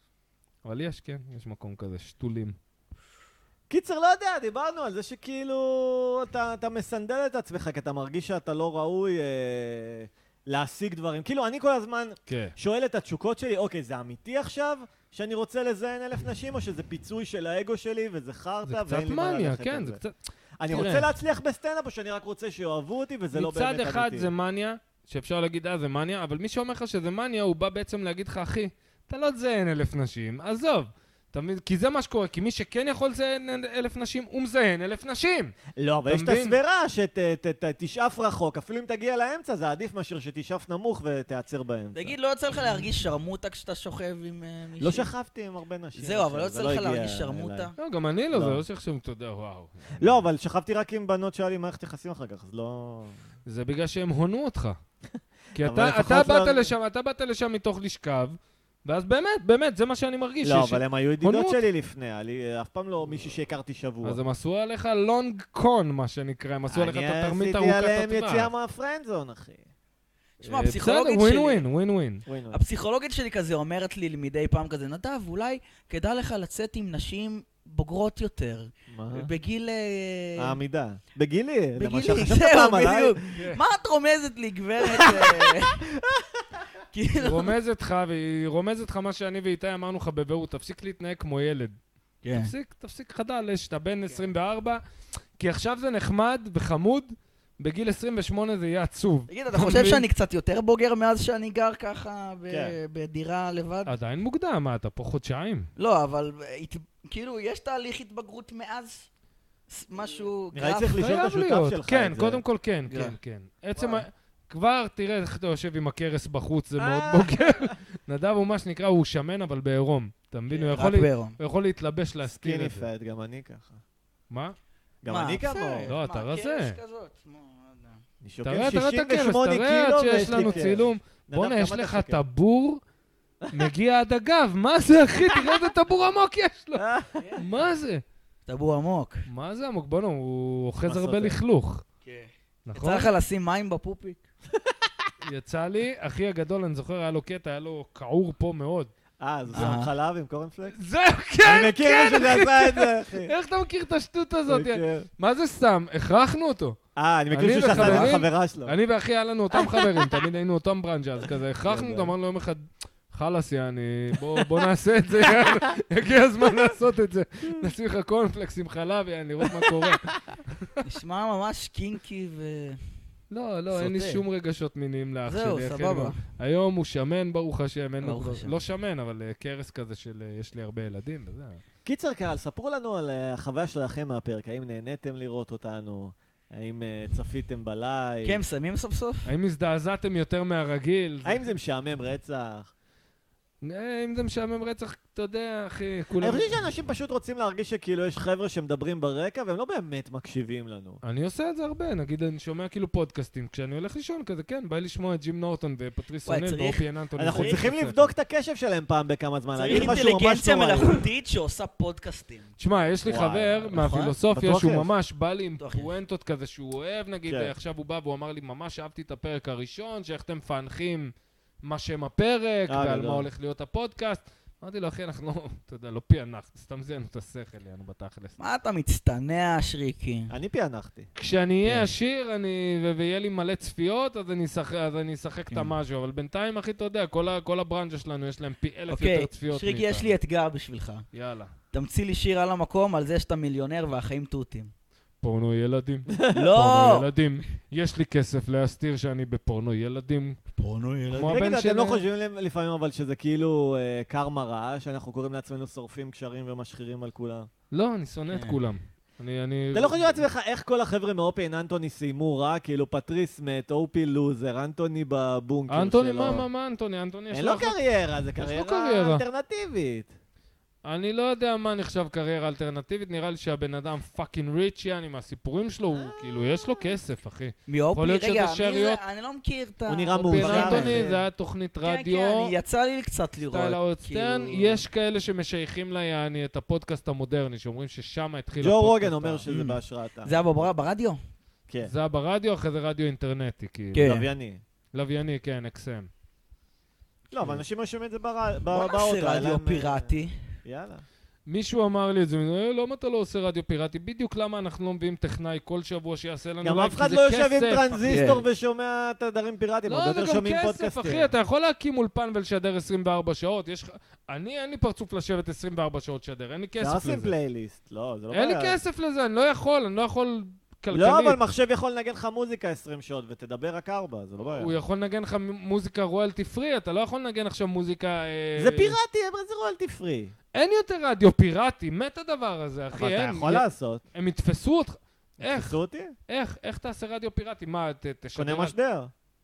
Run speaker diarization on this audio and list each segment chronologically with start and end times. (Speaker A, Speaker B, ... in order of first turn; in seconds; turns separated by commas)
Speaker A: 0.6-2.5, Speaker B: 3.7-20.0, Speaker A: 12.3-12.5, Speaker A: 18.6-20.1, Speaker B: 20.6-24.3, Speaker A: 20.7-21.1, Speaker A: 23.3-36.6, Speaker B: 35.8-42.1, Speaker C: 41.9-45.1, Speaker B: 44.8-47.7, Speaker C: 45.9-47.7, Speaker A: 47.8-50.2, Speaker B: 48.3-48.6, Speaker B: 50.0-53.2, Speaker A: 53.5-54.8, Speaker A: 55.5-61.6, Speaker B: 55.6-56.7, Speaker B: 60.4-64.2, Speaker A: 64.0-68.5, Speaker B: 66.7-69.7, Speaker C: 70.4-71.6, Speaker A: 70.4-72.2, Speaker B: 72.2-72.6, Speaker C: 72.5-80.6, Speaker B: 78.9-79.3, Speaker B: 80.4-83.2, Speaker C: 81.8-85.8, Speaker B: 84.9-86.3, Speaker C: 86.9-87.5, Speaker A: 87.2-91.7, Speaker C: 92.2-92.5, Speaker A: 92.3-94.8, Speaker A: 95.4-100.0, Speaker C: 99.3-103.9, Speaker B: 102.5-102.7, Speaker A: 103.8-105.7, Speaker C: 105.8-109.1, Speaker C: 109.7-111.0, Speaker B: 110.5-112.4, Speaker A: 111.0-122.9, Speaker C: 112.9-113.2, Speaker C: 113.8-114.0, Speaker B: 116.8-117.7, Speaker C: 120.5-121.4, Speaker B: 122.2-123.8, Speaker A: 124.3-124.5, Speaker B: 125.0-125.9, Speaker C: 125.1-128.0, Speaker A: 125.8-126.8, Speaker B: 128.2-132.2, Speaker A: 128.4-132.8, Speaker C: 130.2-130.8, Speaker B: 133.4-133.7, Speaker A: 133.5-136.8, Speaker B: 135.3-135.6, Speaker B: 136.8-137.2, Speaker C: 137.2-137.5, Speaker A: 137.3-138.0, Speaker C: 138.4-139.2, Speaker A: 139.3-141.8, Speaker B: 140.8-141.4, Speaker C: 142.0-144.2, Speaker A: 142.7-143.1, Speaker A: 145.2-148.9, Speaker B: 149.2-150.7, Speaker C: 149.5-149.9, Speaker A: 150.7-156.8, Speaker B: 151.4-153.3, Speaker B: 154.5-155.1, Speaker B: 156.9-158.8, Speaker A: 157.3-170.7, Speaker C: 157.7-158.1, Speaker B: 161.7-162.1, Speaker B: 169.4-170.3, Speaker C: 170.8-172.8, Speaker A: 173.3-181.6, Speaker C: 173.7-174.2, Speaker C: 175.2-176.2, Speaker C: 178.0-178.6, Speaker B: 181.8-188.4, Speaker C: 188.2-189.3, Speaker A: 189.2-191.4, Speaker B: 191.2-192.7, Speaker A: 193.6-196.7, Speaker B: 196.2-201.0, Speaker A: 201.0-208.1, Speaker C: 206.2-207.6, Speaker B: 207.2-211.1, Speaker C: 209.5-212.5, Speaker A: 212.6-228.3, Speaker B: 213.0-213.8, Speaker C: 213.7-214.1, Speaker B: 214.3-214.9, Speaker C: 215.6-215.9, Speaker B: 217.2-217.5, Speaker B: 222.7-223.3, Speaker C: 228.4-230.3, Speaker B: 230.3-231.1, Speaker A: 231.2-240.1, Speaker C: 238.9-241.1, Speaker A: 241.1-241.5, Speaker C: 241.7-244.7, Speaker A: 245.2-250.4, Speaker B: 246.1-246.5, Speaker C: 246.3-247.1, Speaker C: 250.6-251.4, Speaker B: 251.1-257.5, Speaker A: 251.1-252.0, Speaker A: 257.7-260.2, Speaker C: 258.3-258.6, Speaker B: 259.7-266.5, Speaker A: 265.7-267.8, Speaker B: 267.3-270.1, Speaker A: 268.4-269.2, Speaker A: 270.8-279.0, Speaker B: 275.9-276.9, Speaker C: 277.7-281.2, Speaker B: 279.9-281.2, Speaker A: 280.1-282.5, Speaker C: 281.8-284.8, Speaker A: 283.5-289.5, Speaker B: 288.6-290.4, Speaker C: 289.5-291.2, Speaker A: 291.8-294.2, Speaker C: 293.9-294.2, Speaker B: 294.0-294.6, Speaker A: 294.9-296.1, Speaker B: 297.3-301.0, Speaker C: 298.7-300.4, Speaker A: 301.5-308.2, Speaker B: 306.6-311.3, Speaker C: 308.0-308.4, Speaker A: 309.9-317.3, Speaker B: 316.8-318.8, Speaker A: 318.3-321.4, Speaker B: 320.9-324.8, Speaker A: 324.5-329.0, Speaker B: 328.6-330.3, Speaker A: 330.5-338.7, Speaker B: 332.9-334.0, Speaker B: 335.4-336.1, Speaker B: 338.4-339.1